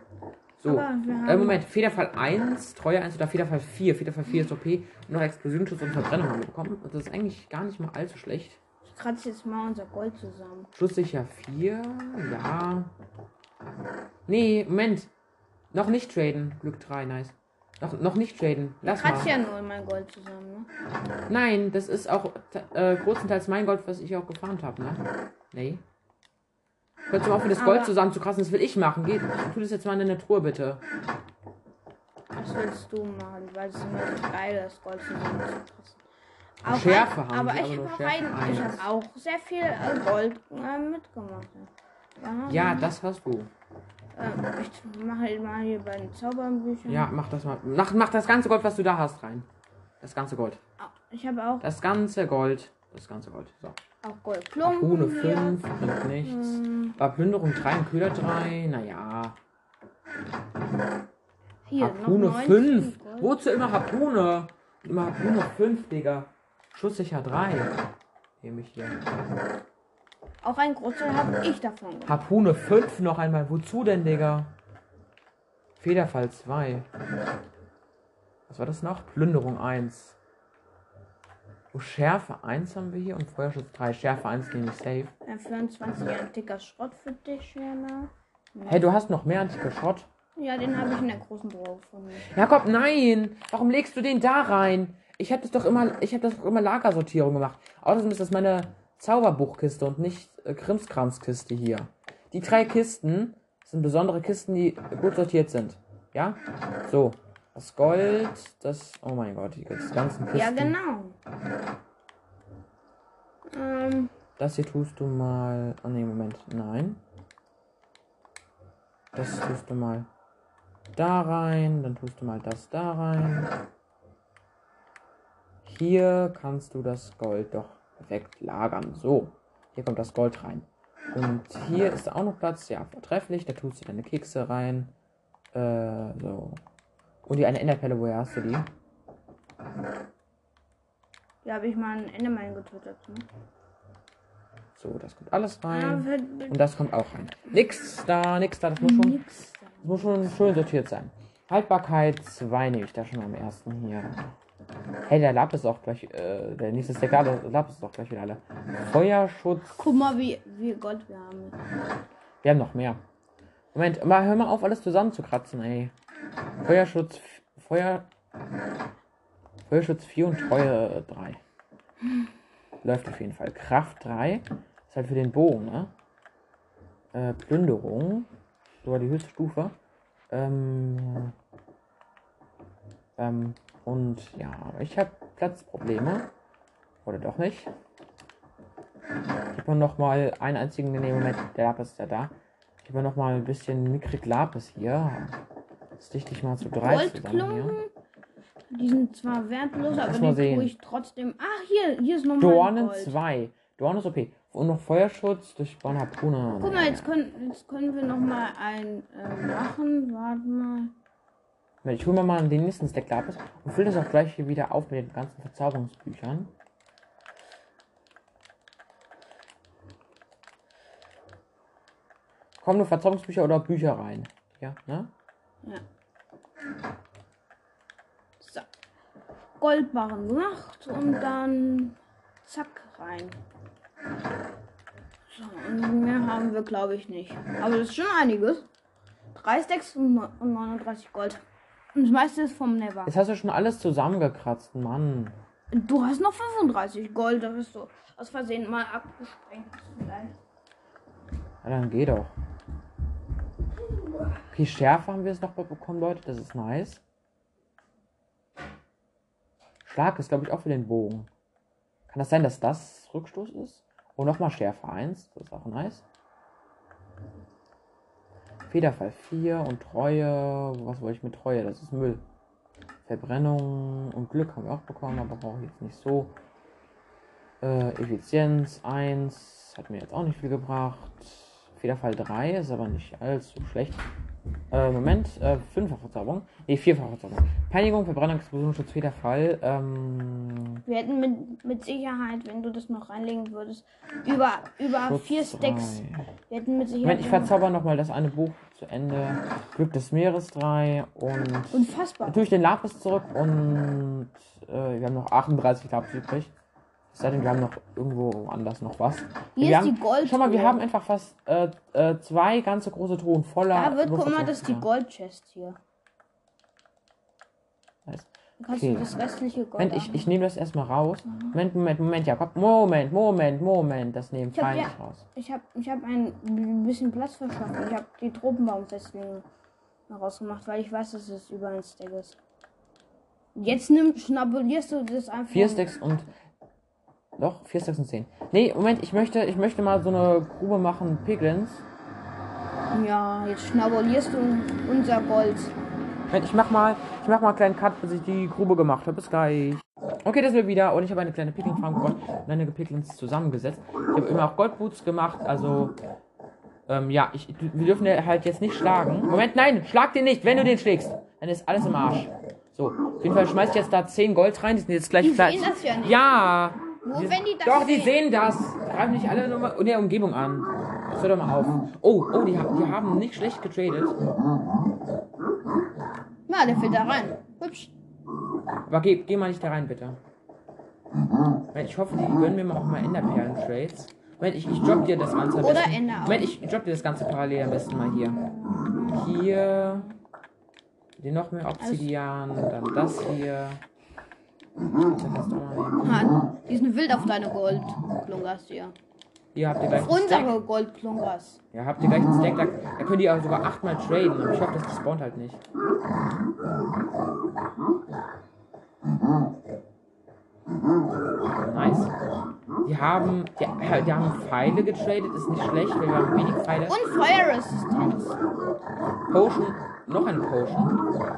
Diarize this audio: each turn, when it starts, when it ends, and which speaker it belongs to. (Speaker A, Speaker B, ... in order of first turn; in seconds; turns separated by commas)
Speaker A: 0.6-8.6, Speaker B: 0.6-1.6, Speaker B: 8.9-10.7, Speaker A: 10.7-12.9, Speaker A: 14.3-15.1, Speaker A: 15.7-19.3, Speaker B: 18.8-20.7, Speaker A: 21.3-25.8, Speaker A: 27.1-30.8, Speaker B: 27.6-27.9, Speaker B: 32.3-36.0, Speaker B: 36.6-42.9, Speaker A: 36.6-38.9, Speaker A: 42.5-43.5, Speaker B: 44.1-47.1, Speaker A: 46.9-49.5, Speaker A: 50.0-50.6, Speaker B: 50.8-51.6, Speaker A: 51.6-53.8, Speaker B: 54.0-55.6, Speaker A: 54.6-59.4, Speaker B: 56.2-57.0, Speaker B: 61.6-63.3, Speaker A: 61.8-67.8, Speaker A: 68.4-69.0, Speaker B: 70.4-72.2, Speaker A: 72.0-74.5, Speaker A: 75.8-76.9, Speaker A: 78.5-80.2, Speaker A: 81.7-85.1, Speaker B: 85.2-88.8, Speaker A: 88.7-90.1, Speaker B: 90.3-92.3, Speaker A: 92.2-110.8, Speaker B: 110.3-111.2, Speaker B: 113.5-114.1, Speaker A: 114.4-117.0, Speaker A: 119.1-120.1, Speaker A: 120.9-123.5, Speaker A: 125.6-134.9, Speaker A: 135.5-136.6, Speaker A: 137.2-138.7, Speaker B: 141.4-143.3, Speaker A: 144.7-149.2, Speaker B: 145.7-146.6, Speaker B: 148.8-149.8, Speaker A: 149.8-154.3, Speaker A: 155.1-159.9, Speaker B: 159.8-161.6, Speaker A: 162.4-163.0, Speaker A: 163.7-165.9, Speaker A: 166.6-168.1, Speaker A: 169.7-171.4, Speaker A: 172.8-175.9, Speaker A: 177.1-178.3, Speaker A: 178.8-179.8, Speaker A: 180.3-181.3, Speaker A: 183.2-186.3, Speaker A: 187.0-187.7, Speaker A: 189.5-195.4, Speaker A: 196.0-197.8, Speaker B: 196.8-197.9, Speaker B: 198.7-203.2, Speaker A: 200.0-200.7, Speaker A: 202.4-207.1, Speaker B: 206.6-210.9, Speaker A: 211.8-216.5, Speaker A: 222.6-225.1, Speaker B: 228.4-228.7, Speaker B: 229.6-233.4, Speaker B: 235.3-238.7, Speaker B: 239.3-241.4, Speaker B: 241.9-243.1, Speaker A: 243.1-245.4, Speaker B: 245.7-250.4, Speaker A: 251.6-252.3, Speaker A: 254.5-257.0, Speaker A: 259.8-261.3, Speaker A: 262.1-266.1, Speaker A: 268.7-272.2, Speaker A: 273.0-276.4, Speaker A: 277.6-284.1, Speaker A: 284.7-290.8, Speaker B: 290.9-297.5, Speaker A: 294.9-296.3, Speaker A: 297.0-306.5, Speaker B: 301.7-302.4, Speaker A: 307.1-314.9, Speaker B: 309.6-310.8, Speaker B: 313.7-315.8, Speaker A: 318.1-319.1, Speaker B: 318.6-320.3, Speaker A: 319.8-325.2, Speaker B: 324.5-329.4, Speaker B: 330.1-332.4, Speaker B: 333.5-335.9, Speaker A: 335.5-336.3, Speaker A: 337.4-341.8, Speaker B: 342.9-345.7, Speaker A: 346.3-355.9, Speaker A: 356.9-374.2, Speaker B: 365.2-366.2, Speaker B: 367.0-368.1, Speaker B: 376.5-377.9, Speaker A: 378.9-380.2, Speaker A: 381.7-388.4, Speaker B: 385.6-386.5, Speaker B: 388.6-389.2, Speaker A: 389.0-390.1, Speaker A: 391.2-393.8, Speaker B: 391.8-392.1, Speaker A: 395.0-396.2, Speaker B: 396.0-398.9, Speaker A: 399.5-400.5, Speaker B: 399.9-401.6, Speaker A: 401.7-405.6, Speaker A: 411.5-412.1, Speaker A: 412.8-417.0, Speaker B: 416.9-418.4, Speaker A: 419.3-421.0